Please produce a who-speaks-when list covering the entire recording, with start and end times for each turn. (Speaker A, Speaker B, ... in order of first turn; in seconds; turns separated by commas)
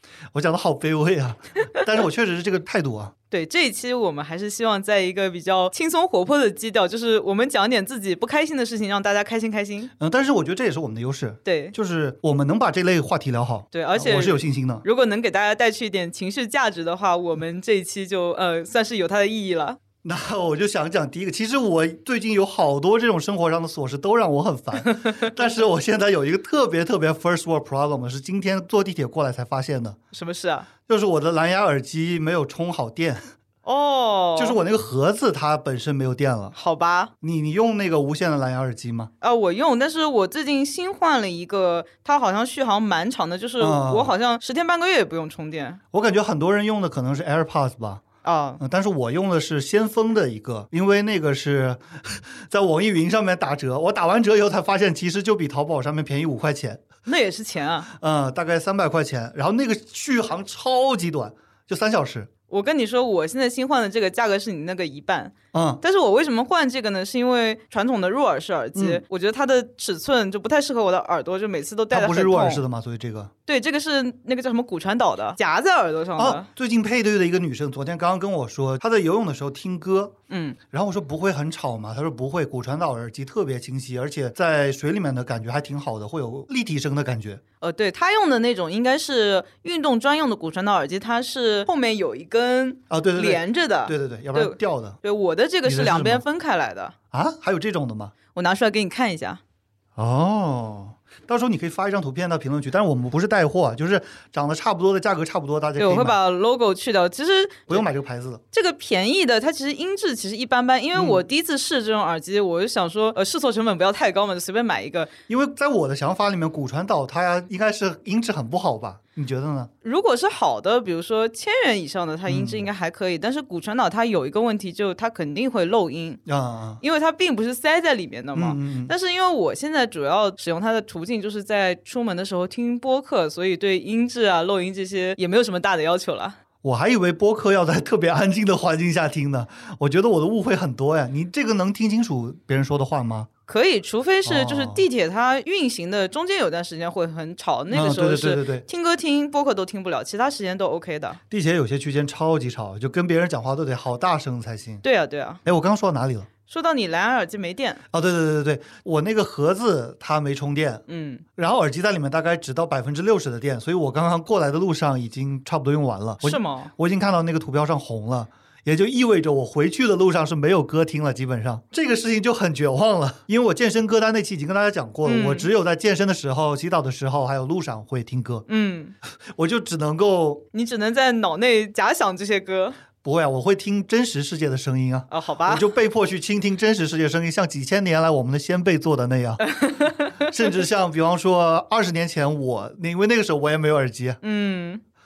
Speaker A: 0.3-3.1, Speaker B: 3.3-9.9, Speaker A: 10.0-14.8, Speaker B: 11.4-11.7, Speaker B: 13.7-19.8, Speaker A: 20.0-30.0, Speaker B: 24.8-25.4, Speaker B: 30.1-30.7, Speaker A: 30.9-33.2, Speaker B: 33.6-34.6, Speaker A: 34.4-36.5, Speaker B: 36.5-37.1, Speaker A: 37.2-39.1, Speaker B: 39.2-45.8, Speaker A: 43.6-44.1, Speaker A: 45.9-48.0, Speaker B: 48.2-48.6, Speaker A: 48.6-56.9, Speaker B: 57.0-57.9, Speaker A: 57.9-62.3, Speaker B: 62.5-72.6, Speaker A: 65.5-65.8, Speaker A: 68.7-69.0, Speaker A: 71.9-73.3, Speaker B: 73.5-76.5, Speaker A: 76.2-80.1, Speaker B: 80.3-80.6, Speaker A: 80.7-87.4, Speaker B: 87.6-96.9, Speaker A: 92.9-95.0, Speaker A: 95.6-96.2, Speaker A: 97.1-98.1, Speaker B: 98.3-99.4, Speaker A: 100.0-106.2, Speaker B: 105.8-107.9, Speaker A: 107.7-108.4, Speaker B: 108.5-115.1, Speaker A: 110.9-111.2, Speaker A: 115.3-119.7, Speaker B: 119.8-126.2, Speaker A: 122.3-122.7, Speaker A: 126.2-126.8, Speaker B: 126.8-136.4, Speaker A: 128.3-128.9, Speaker A: 136.6-143.3, Speaker B: 143.5-151.2, Speaker A: 144.2-144.8, Speaker A: 147.7-148.6, Speaker A: 151.3-154.8, Speaker B: 154.8-155.4, Speaker A: 155.4-156.3, Speaker B: 156.4-157.8, Speaker A: 157.9-160.8, Speaker B: 160.9-161.2, Speaker A: 161.3-178.4, Speaker B: 166.2-166.7, Speaker B: 175.0-175.5, Speaker B: 178.5-178.9, Speaker A: 179.3-180.4, Speaker B: 180.5-182.8, Speaker A: 183.0-189.4, Speaker B: 185.1-185.7, Speaker B: 189.4-190.3, Speaker A: 190.2-194.2, Speaker B: 194.2-194.8